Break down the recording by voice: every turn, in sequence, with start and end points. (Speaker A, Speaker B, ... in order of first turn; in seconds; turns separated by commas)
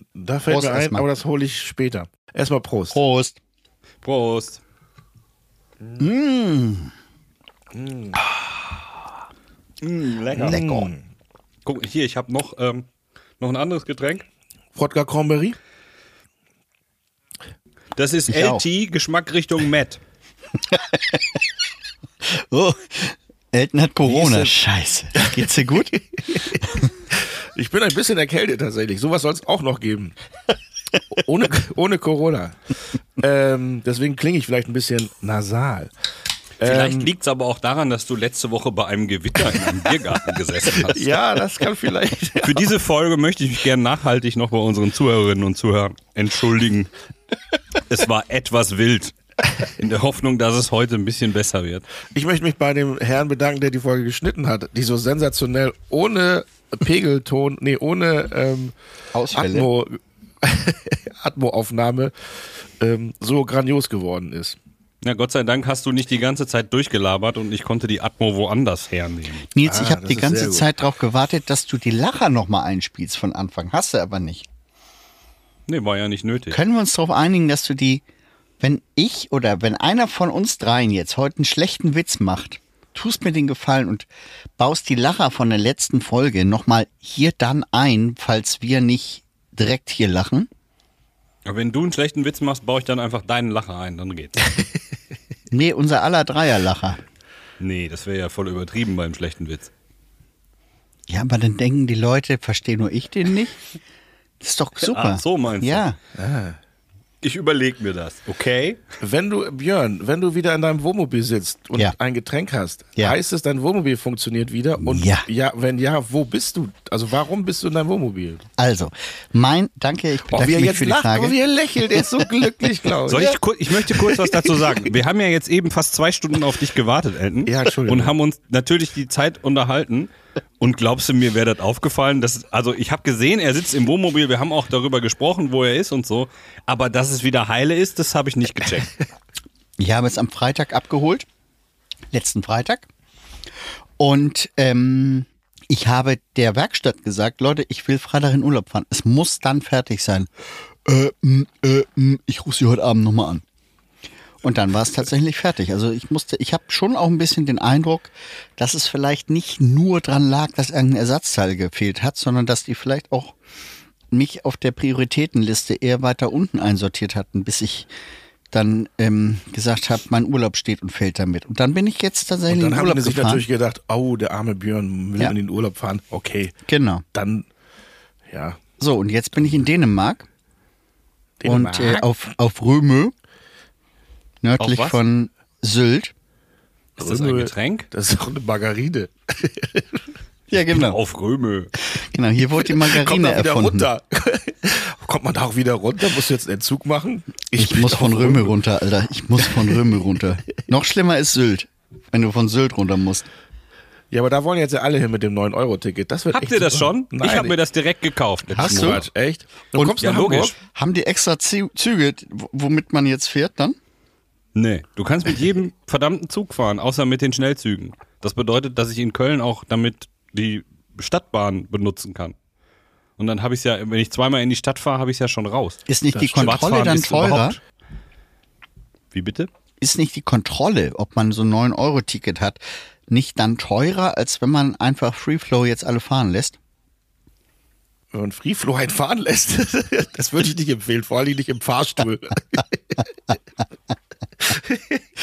Speaker A: 0.2-3.0, Speaker B: 0.5-1.1, Speaker B: 2.9-3.4, Speaker C: 4.0-4.6, Speaker B: 6.0-6.9, Speaker A: 7.7-8.2, Speaker C: 9.8-10.6, Speaker A: 10.4-11.0, Speaker B: 10.4-10.9, Speaker C: 11.7-12.9, Speaker C: 13.4-14.3, Speaker A: 14.8-15.6, Speaker C: 17.9-20.0, Speaker B: 18.3-18.6, Speaker B: 20.7-21.4, Speaker B: 22.2-25.9, Speaker A: 24.1-24.5, Speaker A: 25.1-30.2, Speaker A: 31.1-35.9, Speaker A: 36.6-37.1, Speaker C: 36.6-41.2, Speaker A: 40.8-42.7, Speaker C: 42.4-46.9, Speaker C: 47.9-51.9, Speaker A: 52.1-58.7, Speaker B: 59.1-59.7, Speaker A: 59.3-64.6, Speaker C: 65.0-69.5, Speaker B: 69.5-74.5, Speaker A: 69.7-70.7, Speaker C: 75.7-76.6, Speaker B: 76.5-78.0, Speaker B: 78.6-90.5, Speaker C: 91.5-94.5, Speaker B: 95.5-97.0, Speaker C: 97.6-99.7, Speaker B: 101.1-103.6, Speaker B: 104.4-106.0, Speaker C: 104.8-105.9, Speaker A: 106.2-106.6, Speaker C: 107.2-108.8, Speaker A: 109.0-118.5, Speaker B: 114.8-115.3, Speaker B: 118.6-121.4, Speaker A: 120.3-123.4, Speaker B: 121.9-122.2, Speaker C: 123.1-138.9, Speaker A: 123.9-124.6, Speaker A: 127.5-128.1, Speaker B: 139.8-141.3, Speaker B: 142.1-142.9, Speaker B: 144.0-150.3, Speaker B: 150.8-153.4, Speaker B: 154.4-163.4, Speaker B: 164.1-167.9, Speaker B: 168.5-173.4, Speaker A: 172.5-176.6, Speaker B: 176.7-177.0, Speaker A: 177.1-177.5, Speaker A: 178.3-178.6, Speaker B: 178.8-180.3, Speaker A: 181.4-182.1, Speaker B: 181.5-183.1, Speaker B: 184.4-186.1, Speaker C: 184.6-185.0, Speaker C: 187.0-187.9, Speaker A: 187.0-190.0, Speaker B: 190.5-191.0, Speaker C: 190.7-191.7, Speaker B: 191.8-193.9, Speaker A: 192.6-198.6, Speaker B: 197.6-203.3, Speaker A: 199.4-199.8, Speaker A: 204.1-207.6, Speaker C: 206.3-209.1, Speaker B: 208.5-209.0, Speaker A: 208.6-210.6, Speaker C: 209.9-210.5, Speaker B: 210.7-213.8, Speaker C: 214.6-222.3, Speaker C: 223.2-225.8, Speaker B: 225.9-227.6, Speaker A: 226.1-227.5, Speaker C: 226.4-227.6, Speaker C: 229.1-229.5, Speaker B: 229.8-236.6, Speaker A: 238.1-243.0, Speaker A: 244.5-244.9